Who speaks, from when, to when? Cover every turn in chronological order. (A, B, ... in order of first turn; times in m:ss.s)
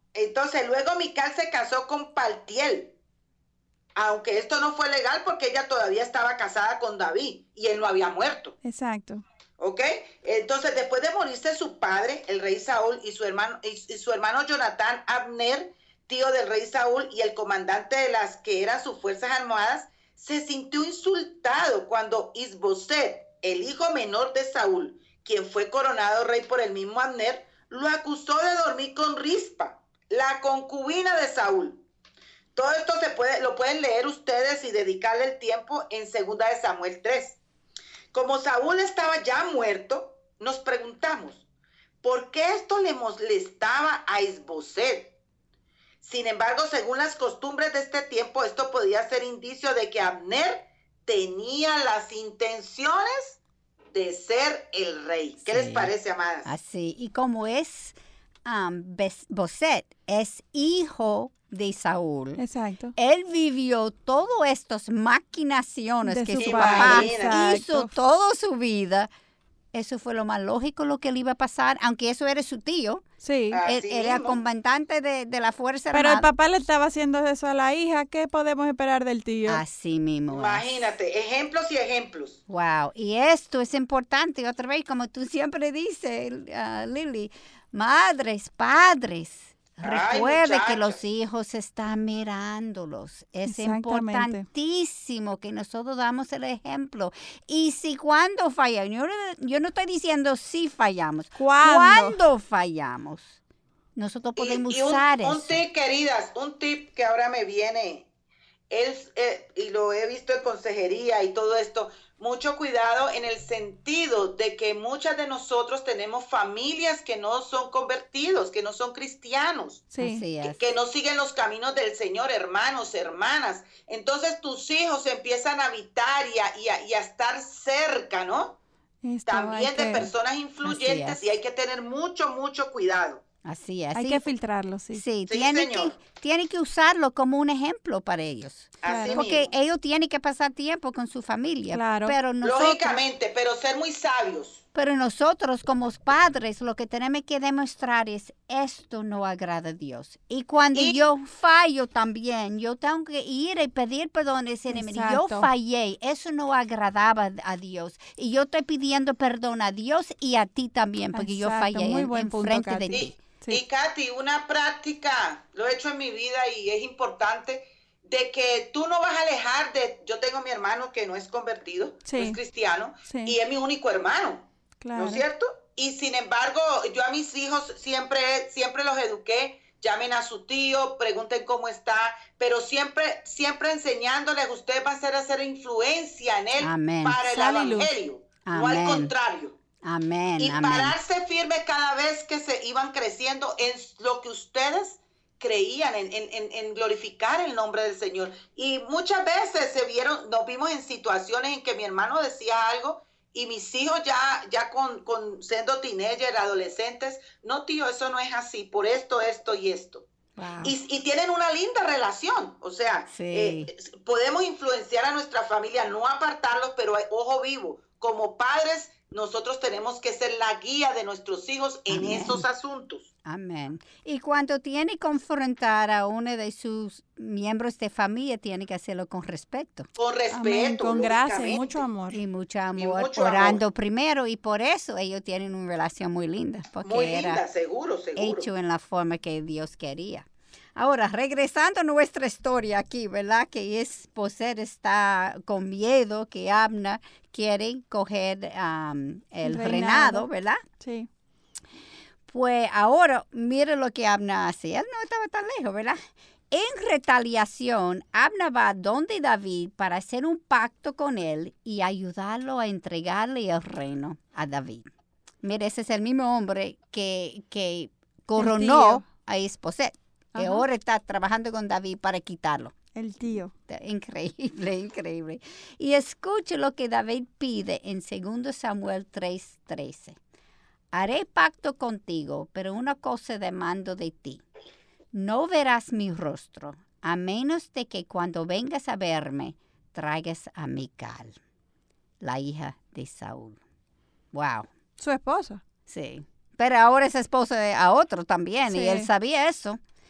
0:00.1-0:02.9 A
0:03.9-0:08.6 A
0:08.6-0:09.2 B
0:09.6-0:31.8 A
0:32.5-0:37.4 A
0:38.1-0:41.4 A
0:42.0-0:45.1 A
0:46.0-0:53.4 A
0:53.9-0:56.5 A
0:55.5-0:55.9 C
0:56.4-1:02.4 C
1:02.4-1:02.9 B
1:02.9-1:09.1 C
1:06.0-1:07.9 B
1:06.4-1:07.4 A
1:09.7-1:13.0 C
1:13.2-1:13.6 B
1:13.5-1:14.4 A
1:13.6-1:16.3 C
1:15.9-1:19.6 B
1:19.5-1:20.9 C
1:20.3-1:22.4 A
1:22.5-1:43.4 C
1:29.8-1:31.0 A
1:33.4-1:34.5 B
1:41.4-1:42.2 B
1:43.9-1:45.6 C
1:44.4-1:48.1 A
1:48.7-1:59.9 A
1:59.9-2:00.2 B
2:00.0-2:00.6 C
2:00.4-2:08.6 A
2:09.0-2:10.1 B
2:09.2-2:13.2 A
2:10.6-2:11.2 C
2:13.4-2:14.3 C
2:13.9-2:15.0 B
2:14.9-2:23.0 C
2:15.3-2:16.0 A
2:18.8-2:19.5 A
2:18.8-2:19.2 B
2:21.7-2:22.2 B
2:22.4-2:24.6 A
2:24.7-2:43.1 C
2:30.7-2:31.0 A
2:34.7-2:35.5 B
2:41.1-2:43.6 B
2:42.9-3:09.6 A
2:52.0-2:52.4 B
2:53.1-2:53.4 B
2:54.8-2:55.2 B
3:06.6-3:07.2 C
3:07.2-3:07.9 B
3:08.4-3:09.1 C
3:09.8-3:11.0 C
3:10.4-3:30.0 A
3:30.4-3:30.7 C
3:30.6-3:43.1 A
3:33.1-3:33.7 C
3:41.9-3:42.4 C
3:43.2-3:49.9 C
3:50.0-3:51.8 A
3:50.3-3:52.2 B
3:52.1-3:57.4 C
3:52.8-3:53.6 A
3:56.8-3:58.5 A
3:58.2-4:10.6 C
4:09.4-4:10.3 B
4:10.8-4:11.1 B
4:12.3-4:24.9 C
4:25.4-4:32.7 C
4:28.4-4:29.1 B
4:30.4-4:30.6 B
4:32.9-4:33.5 B
4:33.7-4:40.2 C
4:40.9-4:44.4 C
4:45.1-4:51.4 C
4:52.2-4:53.6 C
4:54.3-4:54.7 C
4:55.0-4:55.6 B
4:55.9-4:59.8 C
4:58.7-4:59.1 B